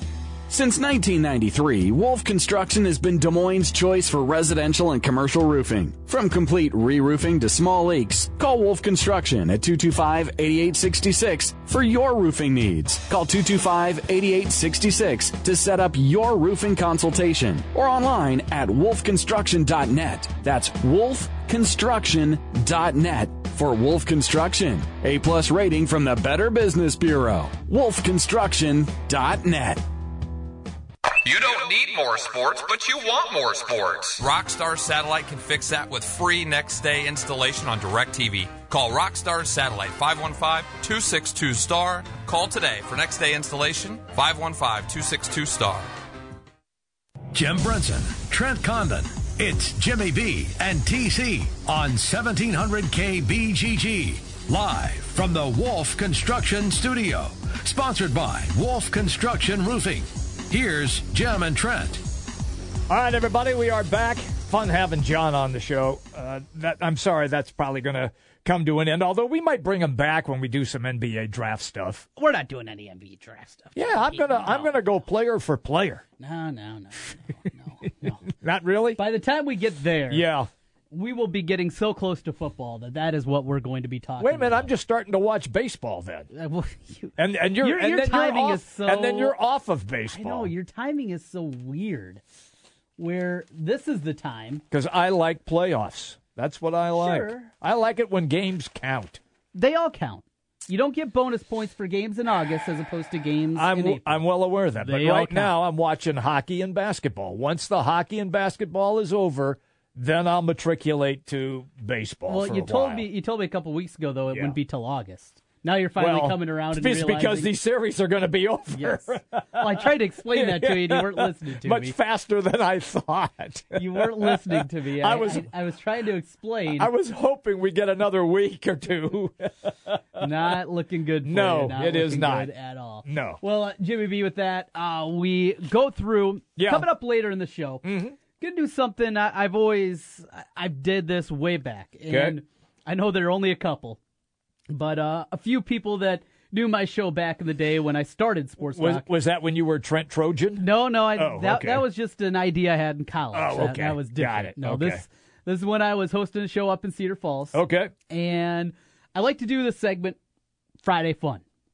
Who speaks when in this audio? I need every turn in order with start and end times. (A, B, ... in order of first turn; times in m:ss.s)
0:00.5-0:07.6 A
0:08.2-0:27.6 A
0:28.8-0:29.4 A
0:31.2-0:45.9 B
0:47.3-1:02.0 C
1:02.9-1:12.0 D
1:12.2-1:15.0 E
1:13.8-1:16.0 D
1:16.2-1:18.3 E
1:18.4-1:19.0 D
1:19.0-1:20.2 E
1:20.1-1:20.5 D
1:20.9-1:24.7 E
1:24.2-1:26.3 D
1:26.3-1:29.4 E
1:27.2-1:30.5 D
1:30.1-1:32.2 E
1:33.0-1:34.6 E
1:34.7-1:39.2 D
1:37.0-1:37.5 E
1:39.5-1:44.2 E
1:43.6-1:53.1 D
1:44.8-1:45.5 E
1:52.3-1:57.5 E
1:54.3-1:54.6 D
1:56.0-2:05.5 D
1:58.7-2:01.9 E
2:03.7-2:06.9 E
2:06.7-2:10.5 D
2:10.2-2:17.8 E
2:11.2-2:12.5 D
2:13.0-2:13.4 D
2:16.6-2:16.9 D
2:17.8-2:18.1 D
2:18.4-2:24.0 E
2:22.1-2:22.4 D
2:24.7-2:29.0 E
2:28.8-2:31.8 D
2:30.6-2:40.2 E
2:33.3-2:35.0 D
2:37.5-2:37.9 D
2:40.8-2:41.4 E